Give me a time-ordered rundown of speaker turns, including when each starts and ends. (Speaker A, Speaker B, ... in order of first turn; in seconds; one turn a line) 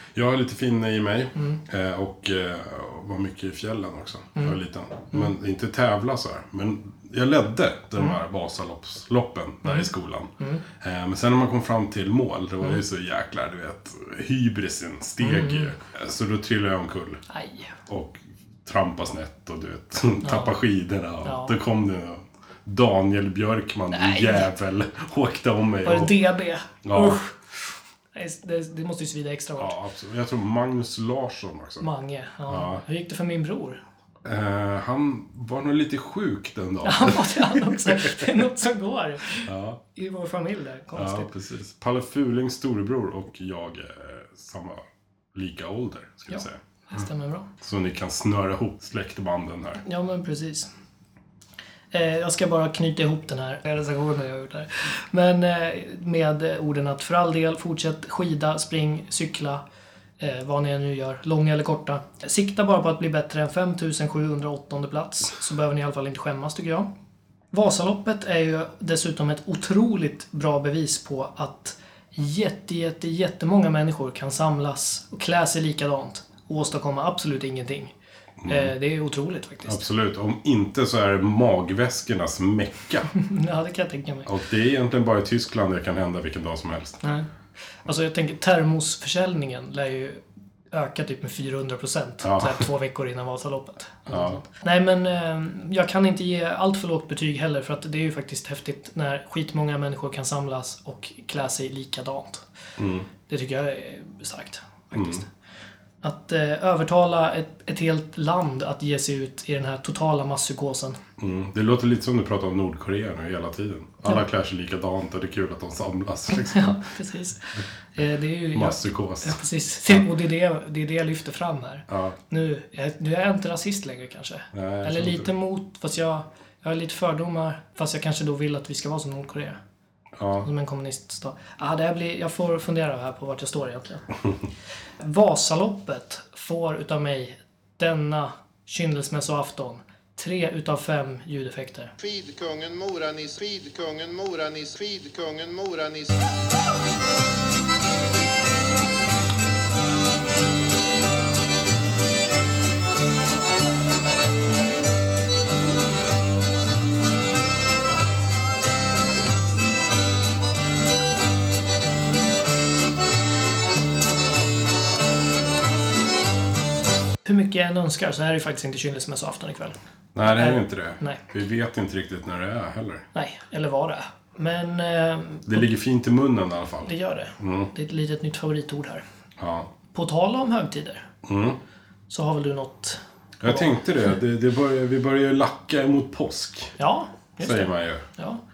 Speaker A: 0.1-17.2
Speaker B: 10.4-10.6
Speaker B: 15.2-15.7
Speaker B: 17.3-17.8
Speaker A: 17.9-26.1
Speaker B: 20.2-20.5
Speaker B: 21.2-21.6
Speaker B: 23.9-24.5
Speaker B: 25.8-27.3
Speaker A: 26.8-27.2
Speaker B: 28.1-29.7
Speaker A: 29.6-31.9
Speaker B: 31.8-33.8
Speaker A: 32.5-32.8
Speaker A: 34.2-38.3
Speaker B: 36.8-41.3
Speaker A: 39.4-39.8
Speaker A: 40.9-44.8
Speaker A: 45.3-46.6
Speaker B: 46.3-47.5
Speaker A: 47.6-49.8
Speaker B: 49.8-50.7
Speaker B: 51.9-59.6
Speaker B: 60.2-66.9
Speaker B: 67.5-77.9
Speaker A: 78.4-78.7
Speaker B: 78.5-79.8
Speaker A: 79.7-83.1
Speaker B: 83.1-84.3
Speaker A: 84.2-87.0
Speaker B: 87.0-87.3
Speaker B: 87.8-102.4
Speaker A: 92.2-92.6
Speaker A: 94.1-94.4
Speaker A: 102.8-103.1
Speaker B: 103.3-105.3
Speaker A: 104.9-105.2
Speaker B: 106.0-111.0
Speaker A: 111.2-116.8
Speaker B: 116.4-129.6
Speaker A: 118.5-120.0
Speaker A: 121.9-122.2
Speaker A: 124.5-125.3
Speaker A: 130.2-130.5
Speaker B: 130.4-134.1
Speaker B: 135.0-141.9
Speaker C: 142.0-146.2
Speaker B: 167.2-169.8
Speaker A: 170.1-173.0
Speaker B: 170.3-171.2
Speaker B: 173.1-175.6
Speaker A: 175.4-177.7
Speaker B: 176.8-179.0
Speaker A: 179.4-179.7
Speaker B: 179.9-181.1
Speaker A: 181.2-181.6
Speaker B: 182.1-183.8
Speaker A: 183.4-186.7
Speaker B: 186.8-188.4
Speaker A: 187.4-188.0